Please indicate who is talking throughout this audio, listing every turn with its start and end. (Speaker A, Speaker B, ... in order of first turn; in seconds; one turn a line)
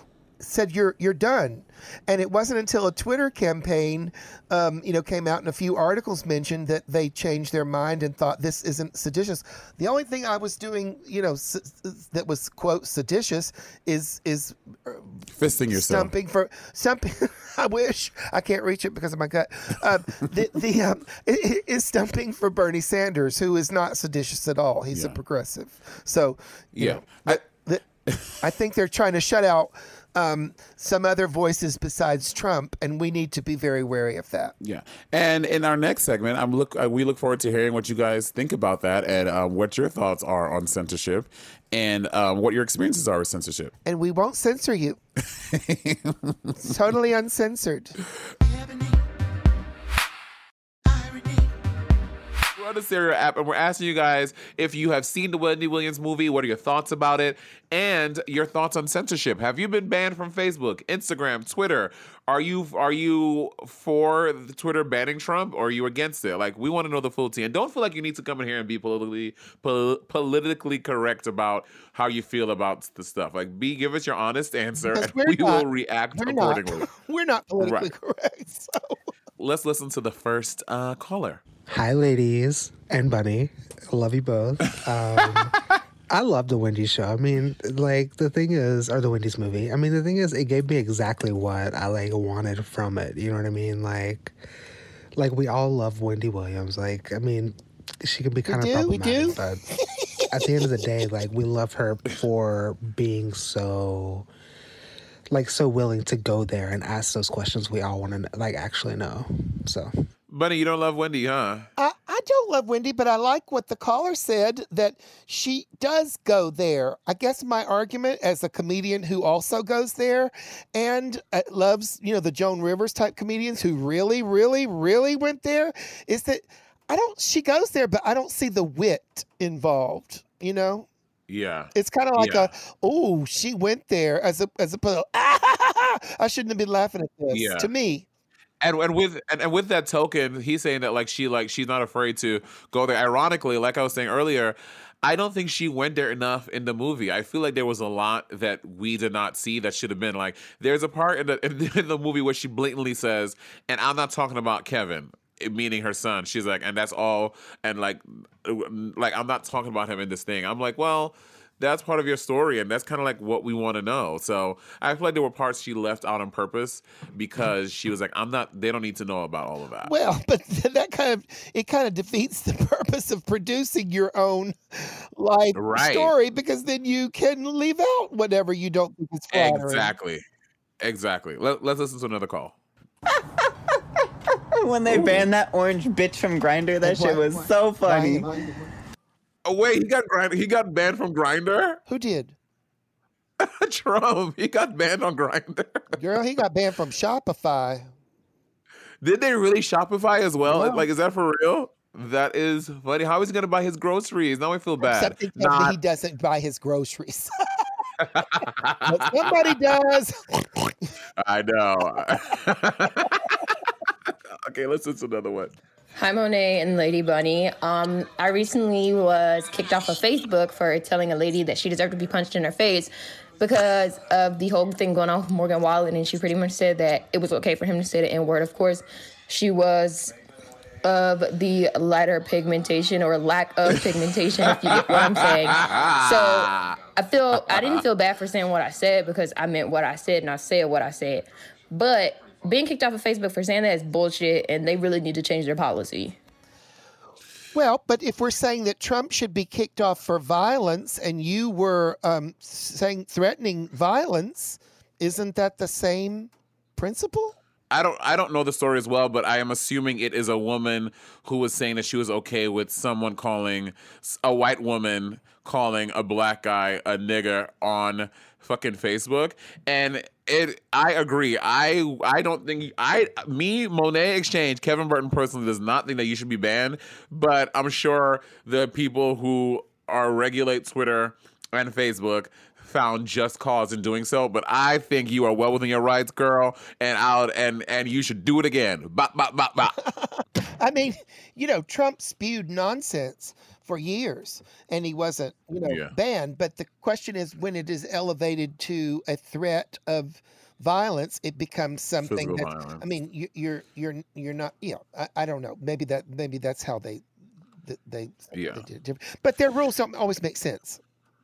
Speaker A: 0.4-27.8
Speaker B: 15.3-16.1
Speaker B: 24.9-25.2
Speaker B: 26.8-27.4
Speaker B: 28.1-28.4
Speaker A: 28.4-34.5
Speaker B: 34.6-43.7
Speaker A: 43.9-45.0
Speaker B: 45.2-46.7
Speaker A: 46.6-48.0
Speaker B: 52.6-76.9
Speaker A: 74.9-79.0
Speaker B: 77.6-77.9
Speaker B: 79.4-81.4
Speaker C: 81.7-85.6
Speaker C: 86.1-94.3
Speaker C: 95.2-99.6
Speaker A: 98.5-99.4
Speaker C: 100.3-104.3
Speaker C: 105.3-109.9
Speaker B: 110.3-111.7
Speaker A: 111.8-130.9
Speaker B: 131.3-132.5
Speaker A: 131.7-138.1
Speaker B: 137.3-137.7
Speaker B: 138.6-169.9
Speaker A: 169.8-179.9
Speaker B: 175.5-176.1
Speaker B: 179.3-180.2
Speaker B: 180.8-182.6
Speaker D: 184.5-188.3
Speaker A: 186.8-188.7
Speaker B: 189.4-191.8
Speaker A: 191.9-192.4
Speaker B: 193.4-196.0
Speaker A: 195.9-197.9
Speaker B: 199.0-205.8
Speaker A: 200.5-200.9
Speaker A: 204.8-207.3
Speaker B: 208.0-209.5
Speaker A: 208.9-210.9
Speaker B: 211.2-215.6
Speaker E: 216.0-230.1
Speaker E: 230.8-246.2
Speaker B: 234.4-236.8
Speaker B: 237.3-237.8
Speaker A: 247.5-257.4
Speaker B: 257.7-289.8
Speaker A: 289.8-307.0
Speaker B: 295.6-295.9
Speaker B: 302.0-302.8
Speaker A: 307.6-310.8
Speaker B: 308.3-308.6